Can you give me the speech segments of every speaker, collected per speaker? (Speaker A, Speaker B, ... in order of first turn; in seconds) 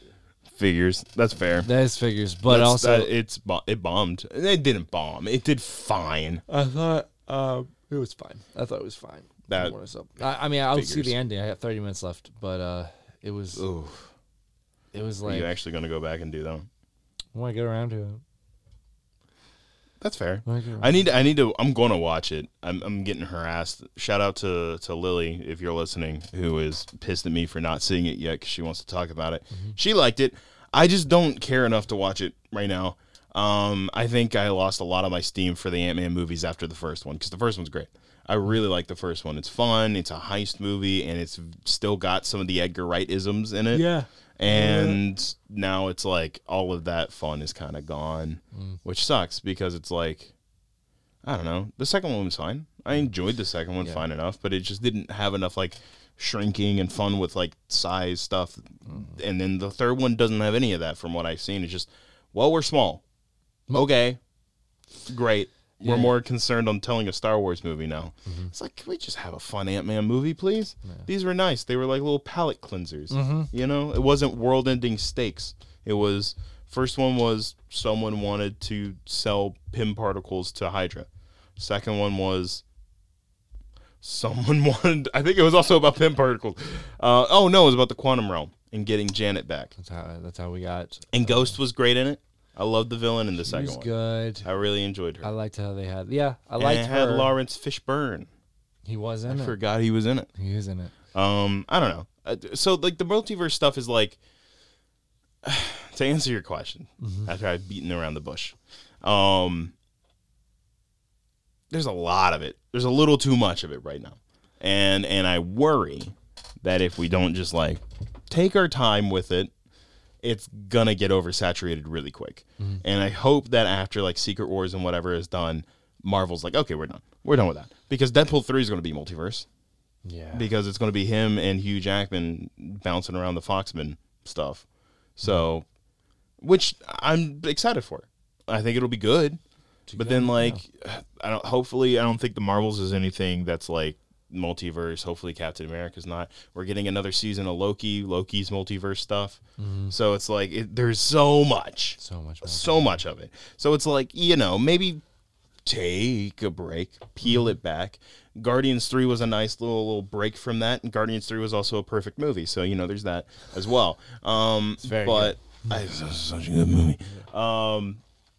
Speaker A: 0.5-1.7, 2.5-6.4, 9.5-9.7, 10.7-11.2, 13.6-14.1, 15.2-16.7, 20.0-43.9, 44.4-50.3, 51.2-63.0, 63.7-64.2, 65.1-82.6, 84.0-89.7, 91.1-93.9, 94.4-95.3, 96.6-98.3, 99.3-100.3, 101.1-104.2, 105.4-109.7, 111.7-119.5, 120.2-129.5, 130.3-134.6, 135.2-135.7, 136.4-139.4, 139.9-155.0, 155.6-168.0
Speaker B: 1.6-3.1, 6.5-13.6, 14.9-15.5, 17.3-18.2, 20.4-21.0, 43.7-45.0, 58.9-59.2, 65.8-66.1, 68.2-68.5, 73.1-73.5, 89.8-91.6, 93.4-94.5, 95.2-97.3, 98.8-99.6, 100.3-100.9, 107.0-107.3, 130.0-130.5, 139.9-140.6, 149.6-149.9, 152.0-153.0, 164.8-165.3